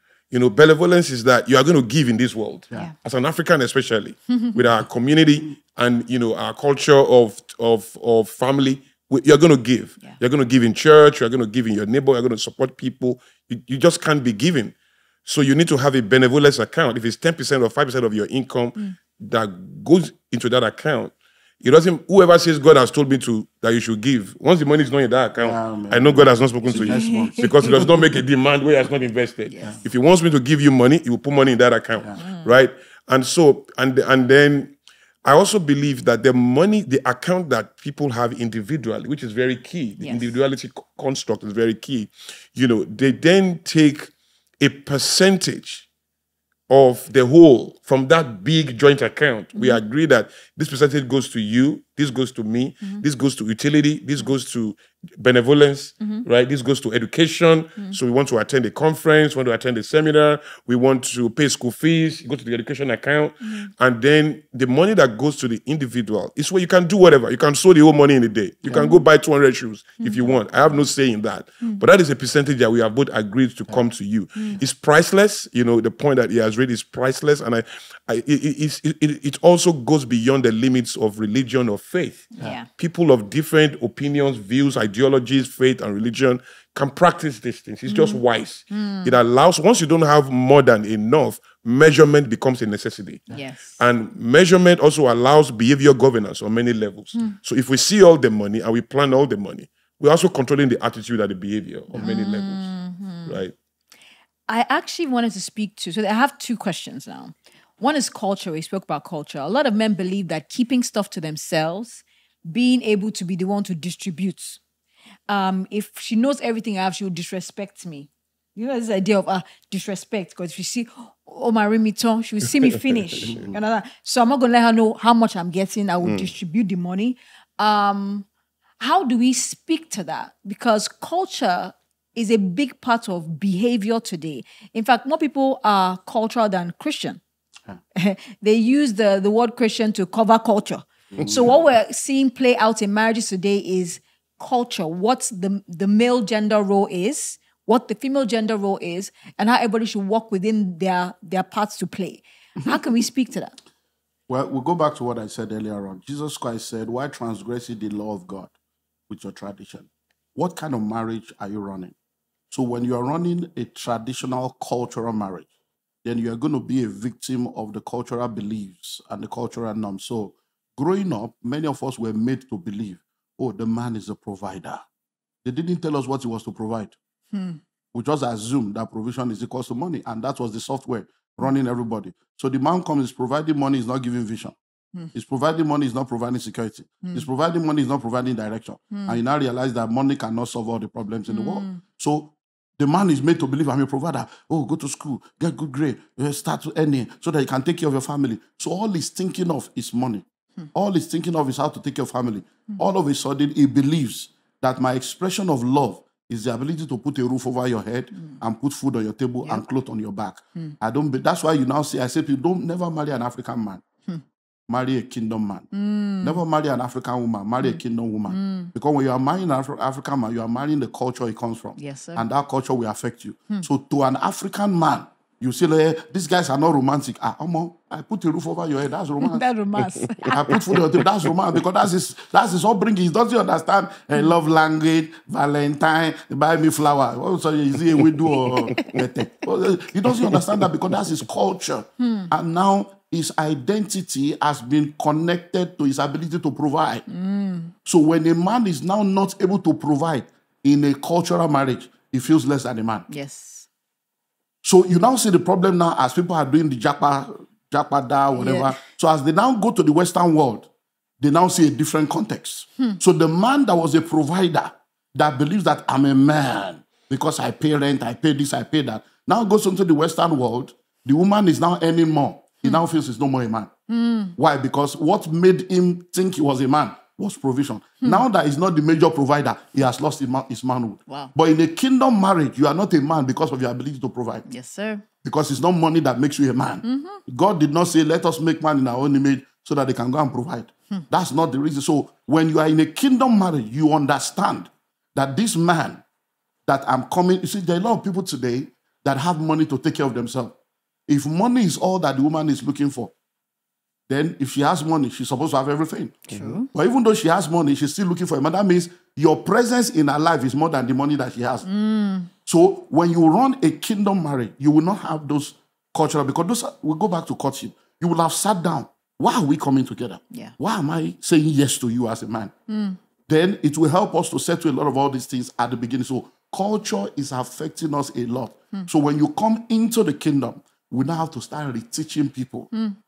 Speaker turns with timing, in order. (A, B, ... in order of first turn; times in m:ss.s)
0:00.3-0:45.9 A
0:25.4-0:27.9 B
0:26.7-0:27.8 C
0:29.5-0:29.8 C
0:32.2-0:32.5 C
0:40.0-0:40.3 C
0:46.7-1:42.7 A
0:49.5-0:49.8 C
1:03.4-1:03.7 C
1:10.0-1:10.4 C
1:22.4-1:22.7 C
1:27.9-1:29.2 C
1:33.3-1:33.8 C
1:42.0-1:43.4 C
1:43.3-1:43.6 A
1:44.5-1:54.6 C
1:55.3-2:08.3 C
2:06.0-2:06.3 A
2:08.8-2:17.2 C
2:18.0-2:33.6 C
2:21.2-2:21.4 B
2:34.3-2:38.5 B
2:39.1-2:42.0 B
2:42.5-2:45.5 B
2:46.0-2:54.8 B
2:55.4-2:57.0 B
2:57.3-2:57.6 C
2:57.9-3:04.6 B
3:05.1-3:33.8 B
3:08.9-3:09.2 C
3:11.3-3:11.8 C
3:34.7-3:35.7 B
3:35.7-3:36.4 C
3:36.2-3:49.4 B
3:37.6-3:38.7 C
3:41.8-3:42.3 C
3:49.2-3:50.8 C
3:50.2-4:07.0 B
3:58.4-3:58.9 C
4:02.0-4:02.3 C
4:07.1-4:07.7 C
4:07.8-4:13.1 B
4:13.1-4:13.7 C
4:14.6-4:20.7 B
4:18.4-4:18.8 C
4:21.2-4:33.7 B
4:33.9-4:34.4 C
4:34.4-4:44.4 B
4:41.1-4:41.3 C
4:44.5-4:45.0 C
4:45.2-4:56.0 B
4:46.8-4:47.2 C
4:56.7-5:00.6 B
5:01.1-5:03.1 B
5:04.1-5:11.7 B
5:06.3-5:06.7 C
5:11.6-5:12.3 C
5:12.5-5:22.5 B
5:22.7-5:23.0 C
5:23.3-5:32.7 B
5:32.7-5:33.0 C